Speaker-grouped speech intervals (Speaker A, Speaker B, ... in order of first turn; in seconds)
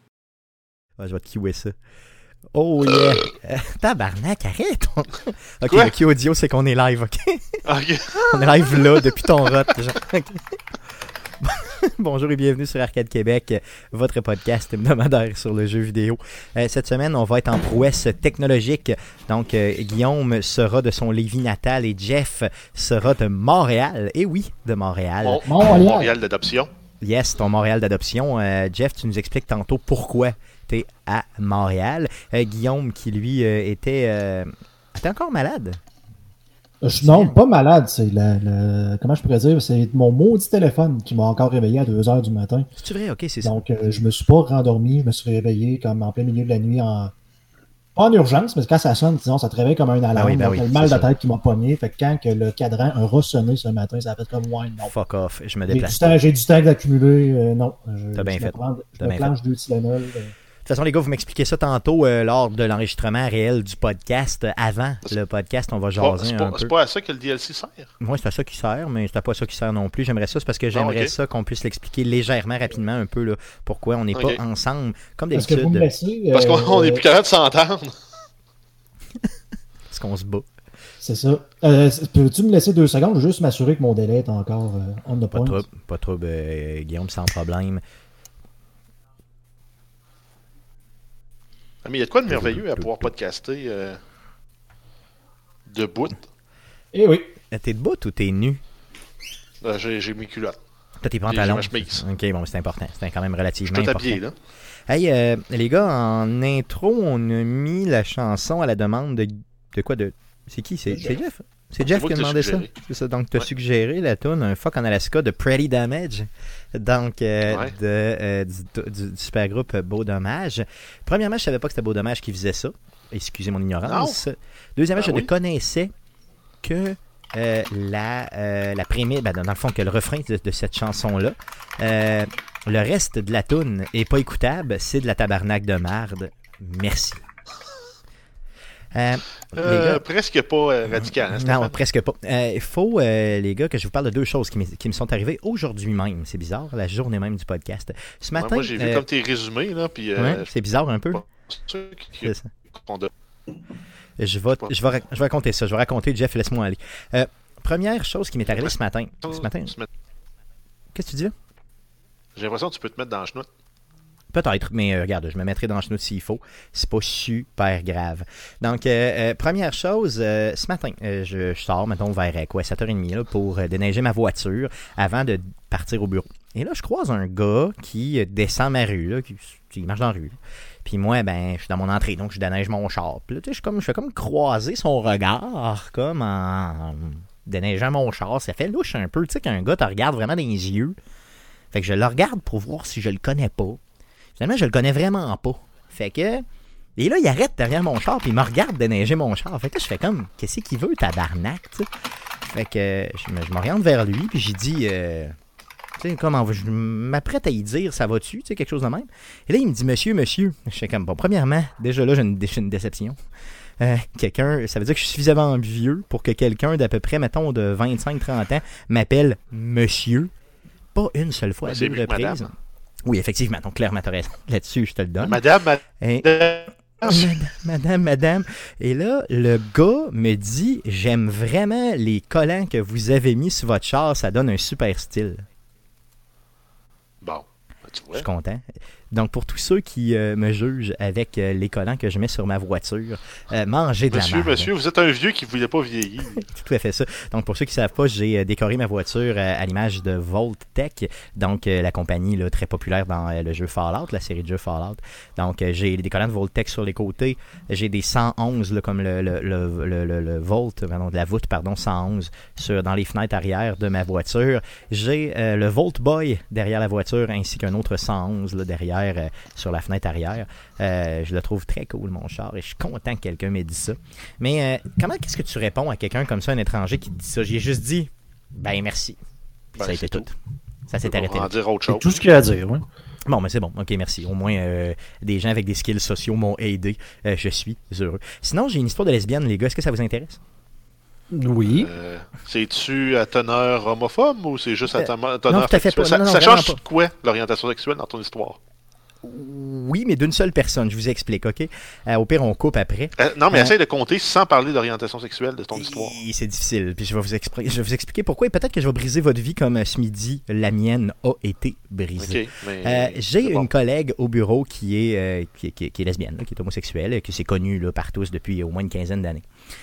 Speaker A: 1.0-1.7, 2.5-7.6, 8.1-10.4, 11.4-25.4, 27.0-35.8, 37.0-37.4, 42.8-43.6, 50.1-51.1, 54.9-56.2, 58.1-59.3, 60.6-66.7, 68.0-75.9, 79.9-80.5, 85.3-87.8, 92.3-93.1, 97.5-98.6, 101.0-104.2, 104.9-125.9, 126.6-137.2, 138.9-140.0, 141.2-149.0, 150.2-151.2, 152.2-152.5, 154.2-159.7, 160.9-161.3, 164.3-190.9, 191.7-193.8, 194.4-196.4, 197.0-201.9, 202.4-205.3, 206.0-213.2, 213.8-220.3, 220.9-222.5, 223.1-225.4, 226.0-226.3, 227.0-235.4, 238.1-244.7, 246.4-279.2, 279.7-280.3, 280.9-281.5, 283.2-290.4, 295.0-296.8, 299.2-303.8, 305.8-319.4
Speaker B: 7.6-9.0, 25.2-26.7, 66.0-67.9, 70.7-71.1, 74.1-74.4, 76.3-77.9, 91.8-94.0, 95.7-96.2, 99.6-100.6, 101.3-102.0, 103.6-104.3, 111.8-112.7, 117.5-117.7, 123.8-124.2, 125.0-125.3, 139.6-141.8, 148.3-150.5, 151.1-153.1, 159.3-159.9, 162.3-163.4, 221.6-222.5, 225.2-227.3, 237.2-238.2, 244.1-246.4, 279.8-280.3, 281.0-282.2, 291.6-298.6, 303.2-306.1, 312.2-313.7
Speaker C: 25.4-26.1, 36.8-42.7, 43.4-47.1, 48.0-54.9, 55.7-60.3, 75.3-77.0, 81.0-85.6, 96.9-97.3, 281.9-282.8, 291.3-291.9